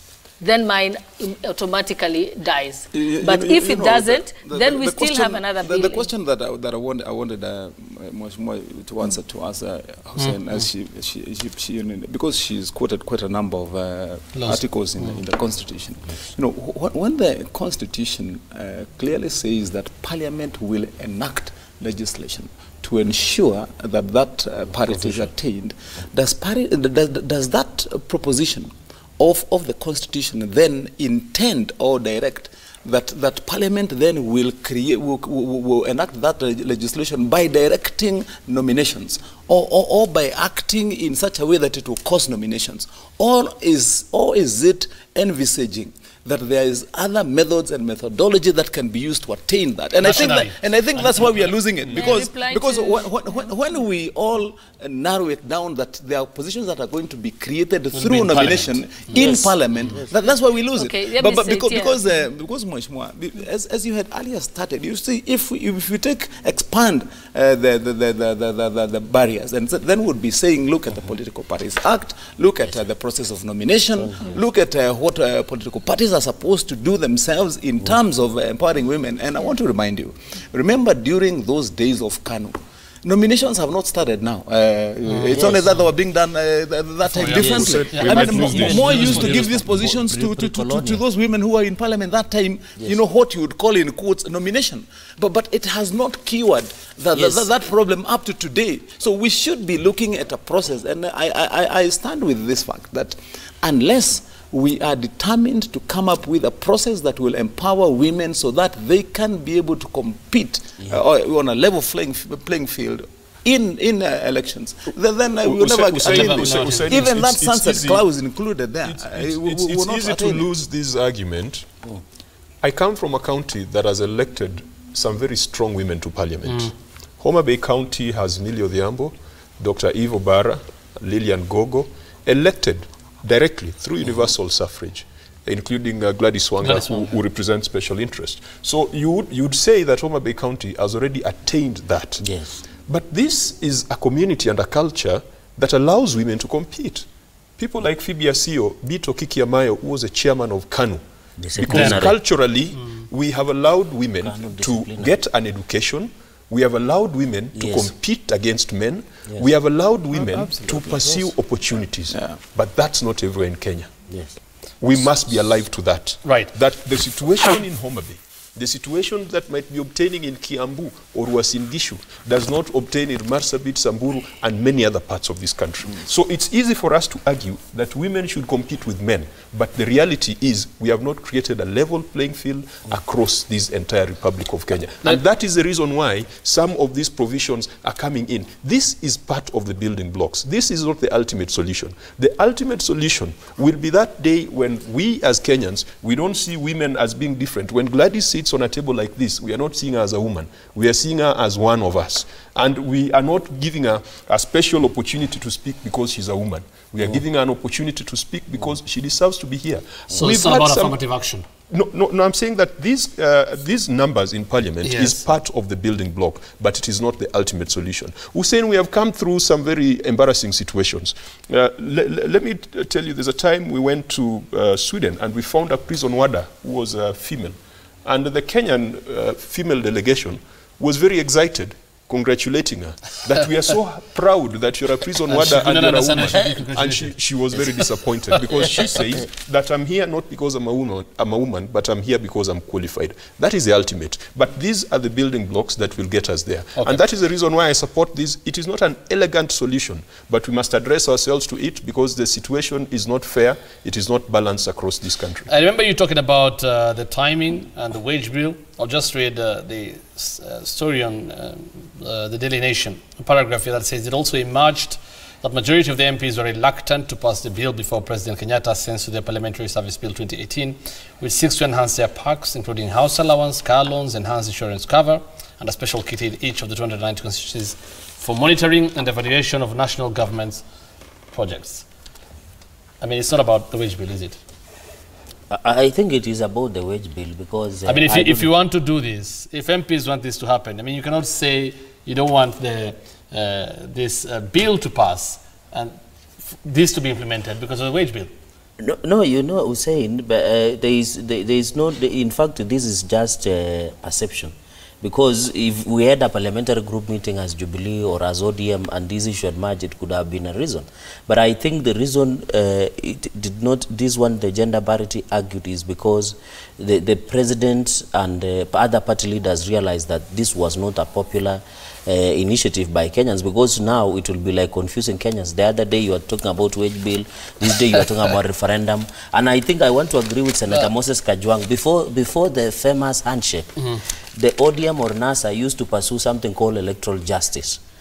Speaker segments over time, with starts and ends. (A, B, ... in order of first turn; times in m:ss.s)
0:00.4-0:06.1 A
0:02.9-2:00.5 B
0:14.4-0:15.2 C
0:50.0-0:52.1 C
0:52.0-0:53.1 A
0:57.9-0:59.4 C
1:00.8-1:02.0 A
1:14.1-1:14.4 D
1:25.1-1:25.8 C
1:25.4-1:25.6 D
1:27.1-1:29.6 C
1:27.4-1:29.4 E
1:27.4-1:27.8 D
1:28.4-1:31.0 D
1:37.1-1:37.4 D
1:55.4-1:58.0 E
1:56.0-1:57.1 C
1:58.9-2:01.7 E
2:02.6-2:22.3 E
2:06.5-2:06.7 C
2:16.6-2:17.1 C
2:22.2-2:22.6 D
2:22.9-2:27.1 E
2:27.6-2:31.0 E
2:31.4-2:32.2 D
2:31.5-2:43.9 E
2:31.7-2:32.1 C
2:34.2-2:35.1 D
2:37.5-2:37.9 D
2:40.4-2:40.6 B
2:42.1-2:42.4 B
2:44.1-2:44.4 D
2:44.8-3:31.0 E
2:46.2-2:46.5 C
3:30.1-3:31.4 C
3:31.7-4:15.5 E
3:34.8-3:35.2 C
3:55.3-3:57.8 C
4:15.5-4:40.6 C
4:41.3-4:41.9 C
4:43.0-4:44.4 C
4:45.5-4:48.5 D
4:47.9-4:56.0 C
4:56.5-4:58.3 C
4:58.8-5:33.7 D
5:34.4-5:37.8 D